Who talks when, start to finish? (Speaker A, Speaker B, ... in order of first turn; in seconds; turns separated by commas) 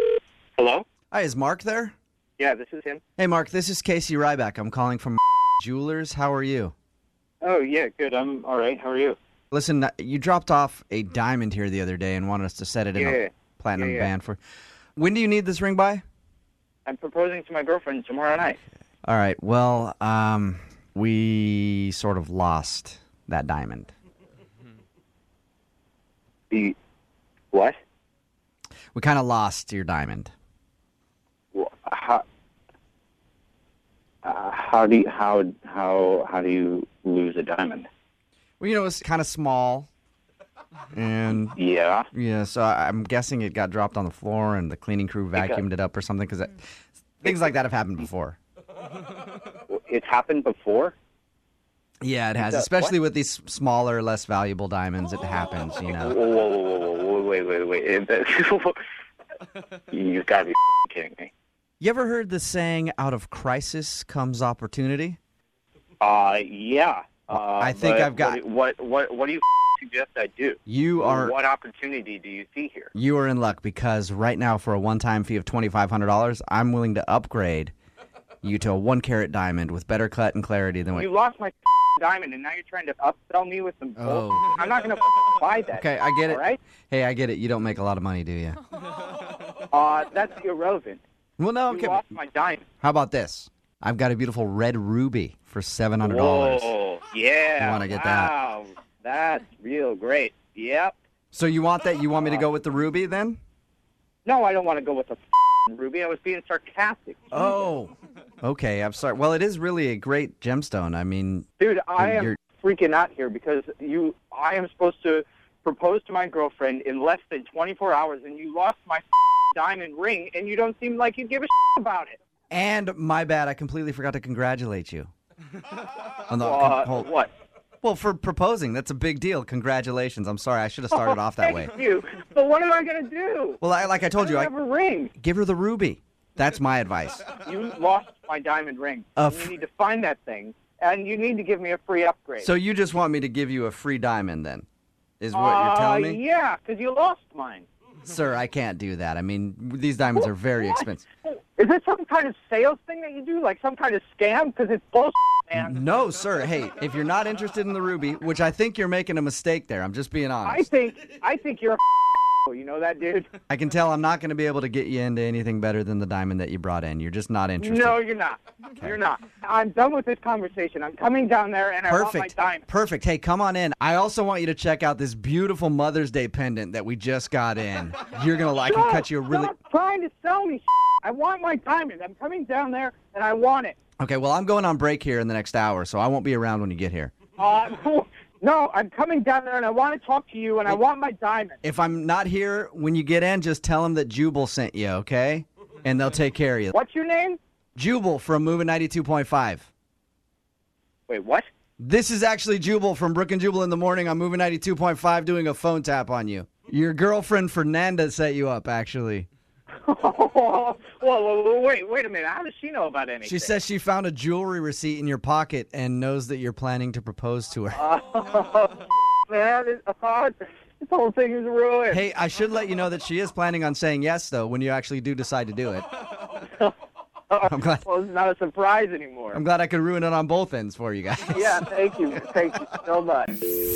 Speaker A: 0.6-0.8, Speaker B: 1.1-1.9, Speaker A: 2.4-3.0, Speaker B: 3.2-6.7, Speaker A: 7.4-9.2, Speaker B: 9.5-14.4, Speaker A: 12.9-14.1, Speaker B: 14.9-16.0, Speaker A: 16.9-18.6, Speaker B: 19.1-23.9, Speaker A: 26.5-26.8, Speaker A: 27.5-27.8, Speaker B: 28.9-30.3, Speaker A: 31.5-32.2, Speaker A: 34.2-37.9, Speaker B: 38.6-39.9, Speaker B: 40.9-41.6, Speaker A: 41.5-42.1, Speaker B: 42.1-46.6, Speaker A: 45.4-45.6, Speaker B: 47.2-48.4, Speaker A: 49.7-50.9, Speaker B: 52.0-56.2, Speaker A: 52.4-52.9, Speaker A: 55.9-58.8, Speaker A: 59.9-61.3, Speaker B: 61.8-65.2, Speaker A: 66.0-72.9, Speaker B: 67.3-68.4, Speaker B: 70.7-71.3, Speaker B: 72.9-77.7, Speaker B: 78.4-81.1, Speaker A: 80.9-86.6, Speaker B: 84.0-84.5, Speaker B: 85.7-88.6, Speaker A: 89.7-91.0, Speaker B: 91.4-92.0, Speaker A: 91.7-92.6, Speaker B: 92.8-96.7, Speaker A: 96.0-100.9, Speaker B: 97.6-98.3, Speaker B: 101.3-103.4, Speaker A: 102.2-102.4, Speaker A: 104.2-107.6, Speaker B: 107.3-111.5, Speaker A: 111.6-122.2, Speaker B: 112.0-112.3, Speaker B: 122.5-125.1, Speaker B: 126.3-127.1, Speaker A: 126.4-127.3, Speaker B: 127.8-131.7, Speaker A: 130.9-133.6, Speaker B: 133.6-134.5, Speaker A: 134.1-135.1, Speaker B: 135.2-137.3, Speaker A: 137.4-142.5, Speaker B: 139.2-139.5, Speaker B: 142.4-144.7, Speaker B: 145.2-146.2, Speaker A: 145.3-147.7, Speaker B: 148.0-151.1, Speaker A: 150.2-155.7, Speaker B: 155.5-160.7, Speaker A: 160.4-161.8, Speaker A: 162.4-163.3, Speaker B: 163.5-168.0, Speaker A: 167.6-172.6, Speaker B: 171.9-179.5, Speaker A: 178.6-183.8, Speaker B: 184.0-187.1, Speaker A: 187.4-191.6, Speaker B: 191.6-196.7, Speaker A: 196.7-197.4, Speaker B: 197.8-199.7, Speaker A: 201.1-201.5, Speaker B: 201.8-209.3, Speaker A: 209.8-213.5, Speaker B: 213.2-217.8, Speaker A: 217.7-222.0, Speaker B: 221.9-225.9, Speaker A: 227.3-229.4, Speaker B: 227.5-227.8, Speaker B: 229.3-231.6, Speaker A: 231.3-233.3